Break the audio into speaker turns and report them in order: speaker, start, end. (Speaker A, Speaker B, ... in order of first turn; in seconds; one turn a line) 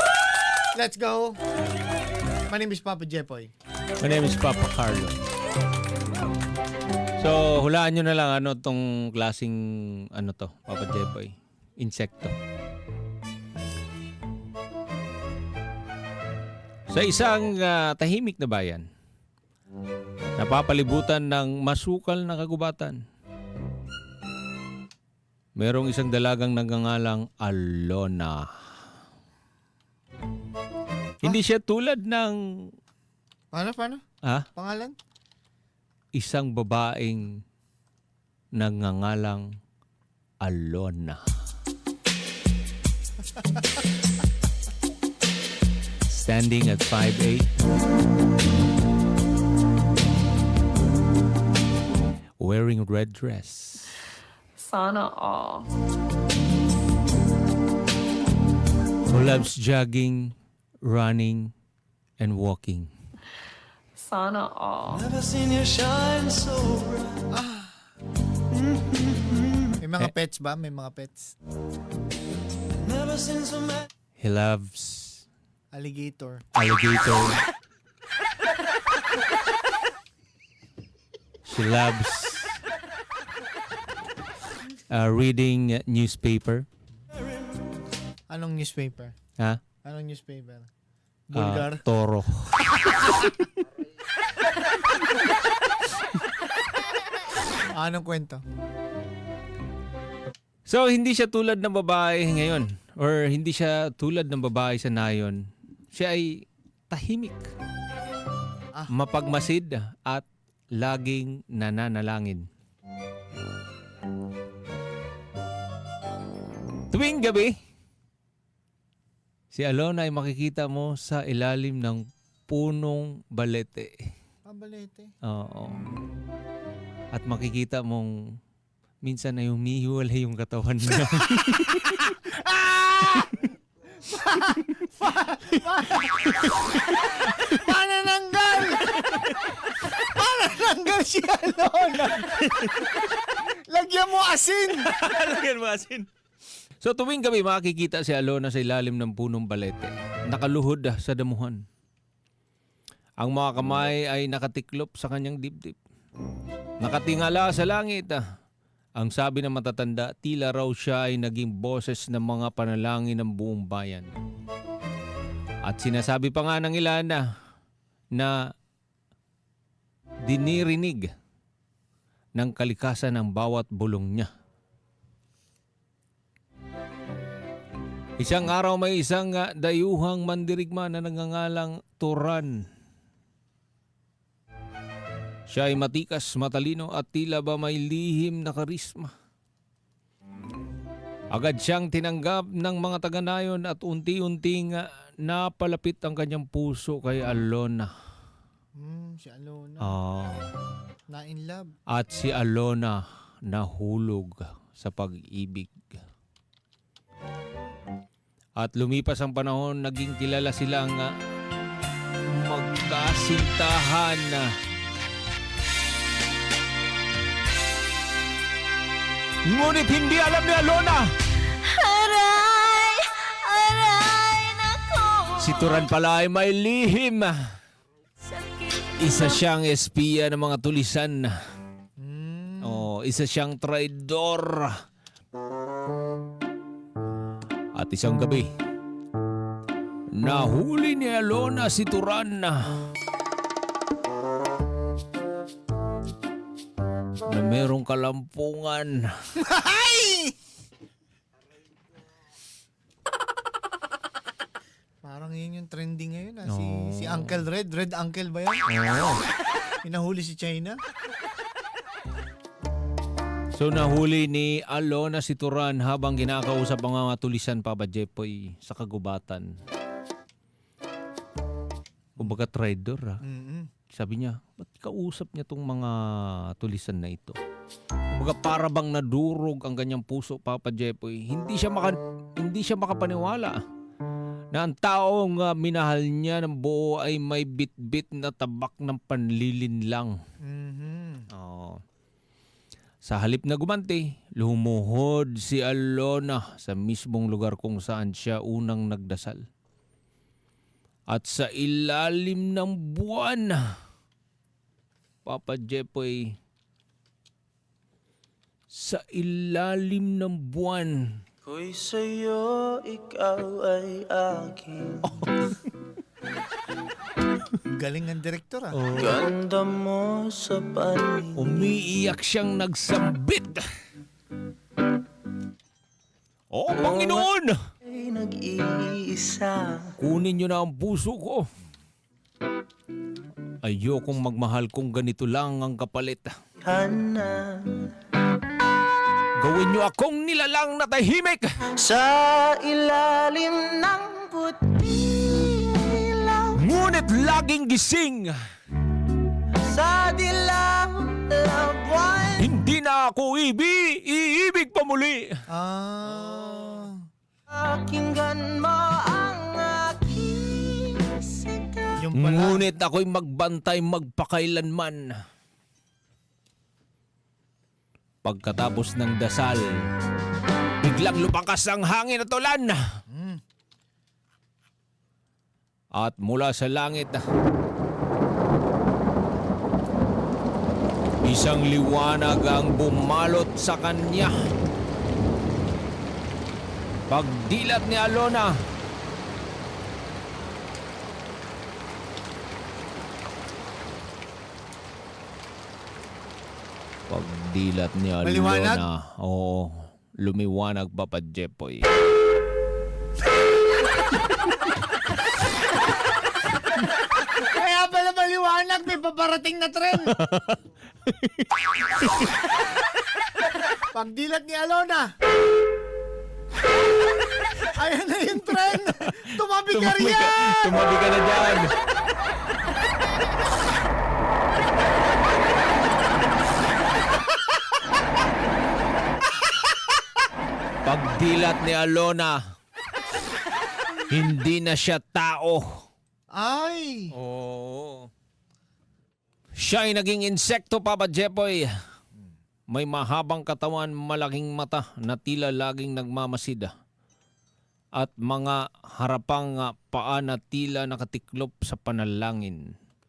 Speaker A: 0.7-1.4
Speaker A: 2.5-3.5
Speaker B: 4.0-5.2
Speaker B: 7.2-12.4
Speaker B: 16.9-18.9
Speaker B: 20.4-23.0
Speaker B: 25.6-28.5
Speaker B: 31.2-32.7
Speaker A: 33.5-34.0
Speaker A: 34.5-35.0
Speaker B: 36.1-37.4
Speaker B: 38.6-39.4
Speaker B: 40.4-41.2
Speaker B: 46.1-47.5
Speaker B: 52.4-53.9
Speaker C: 54.6-55.7
Speaker B: 59.1-61.5
Speaker B: 62.2-62.9
Speaker C: 64.0-65.0
Speaker D: 65.0-67.2
Speaker A: 67.3-67.8
Speaker A: 69.8-71.3
Speaker B: 74.2-75.2
Speaker A: 75.7-76.4
Speaker B: 76.5-77.4
Speaker B: 81.5-82.6
Speaker B: 84.9-86.7
Speaker A: 88.3-89.1
Speaker A: 89.8-90.7
Speaker A: 91.3-91.8
Speaker B: 91.3-93.2
Speaker A: 92.8-93.1
Speaker A: 97.7-98.4
Speaker B: 100.7-105.4
Speaker B: 105.9-107.5
Speaker B: 108.9-112.5
Speaker B: 116.9-117.5
Speaker B: 119.5-124.0
Speaker A: 124.5-125.1
Speaker B: 125.2-125.8
Speaker B: 127.1-128.1
Speaker B: 129.0-133.2
Speaker A: 132.3-133.5
Speaker A: 134.1-136.5
Speaker B: 136.0-137.5
Speaker A: 137.3-138.8
Speaker B: 139.0-139.2
Speaker A: 140.1-142.3
Speaker B: 142.2-142.9
Speaker A: 143.7-144.8
Speaker B: 144.8-146.1
Speaker B: 146.8-151.6
Speaker B: 153.2-155.8
Speaker B: 156.8-158.2
Speaker B: 159.0-164.1
Speaker B: 165.7-167.2
Speaker B: 170.3-171.1
Speaker B: 172.4-174.3
Speaker B: 178.2-182.7
Speaker B: 185.5-189.1
Speaker B: 191.3-197.9
Speaker A: 198.8-199.9
Speaker B: 199.8-200.5
Speaker A: 201.1-201.7
Speaker B: 201.9-205.9
Speaker B: 208.6-211.1
Speaker B: 212.3-214.5
Speaker B: 219.4-221.1
Speaker D: 221.7-225.7
Speaker B: 225.4-227.6
Speaker D: 228.3-228.9
Speaker B: 229.0-231.3
Speaker A: 232.0-232.9
Speaker B: 232.6-234.7
Speaker B: 237.7-238.5
Speaker B: 240.1-242.8
Speaker B: 247.3-249.1
Speaker A: 249.4-250.3
Speaker A: 255.0-258.6
Speaker B: 256.5-257.4
Speaker B: 258.7-259.2
Speaker A: 259.8-260.8
Speaker B: 263.5-269.6
Speaker B: 272.2-273.2
Speaker A: 273.2-273.7
Speaker B: 273.9-277.4
Speaker B: 278.1-283.6
Speaker B: 284.5-290.2
Speaker A: 290.4-291.3
Speaker B: 291.3-291.8
Speaker B: 293.0-299.4
Speaker B: 301.1-303.7
Speaker B: 305.2-306.4
Speaker B: 308.7-311.2
Speaker D: 311.5-315.1
Speaker B: 315.0-315.6
Speaker A: 317.7-318.8
Speaker B: 318.7-319.2
Speaker D: 319.0-321.6
Speaker B: 321.4-323.6
Speaker B: 326.5-327.6
Speaker D: 326.7-327.3
Speaker D: 327.9-329.9
Speaker B: 330.0-331.5
Speaker B: 333.6-336.4
Speaker D: 336.6-337.9
Speaker B: 339.4-341.6
Speaker D: 341.8-346.6
Speaker B: 346.6-348.4
Speaker D: 349.6-352.5
Speaker B: 352.4-355.4
Speaker A: 355.5-357.0
Speaker D: 357.5-362.0
Speaker A: 362.0-362.7
Speaker B: 362.1-365.1
Speaker B: 368.2-369.6
Speaker B: 370.8-372.8
Speaker A: 373.1-373.4
Speaker B: 376.0-377.2
Speaker B: 381.2-384.3
Speaker B: 387.1-388.6
Speaker B: 397.1-401.9
Speaker A: 398.2-398.9
Speaker A: 407.6-410.1
Speaker B: 410.1-412.3
Speaker A: 413.9-415.1
Speaker A: 417.7-420.5
Speaker B: 419.0-421.7
Speaker B: 430.8-432.4
Speaker B: 434.1-435.8
Speaker A: 436.3-437.1
Speaker B: 437.1-438.1
Speaker B: 439.6-441.7
Speaker B: 442.7-446.7
Speaker B: 448.0-452.6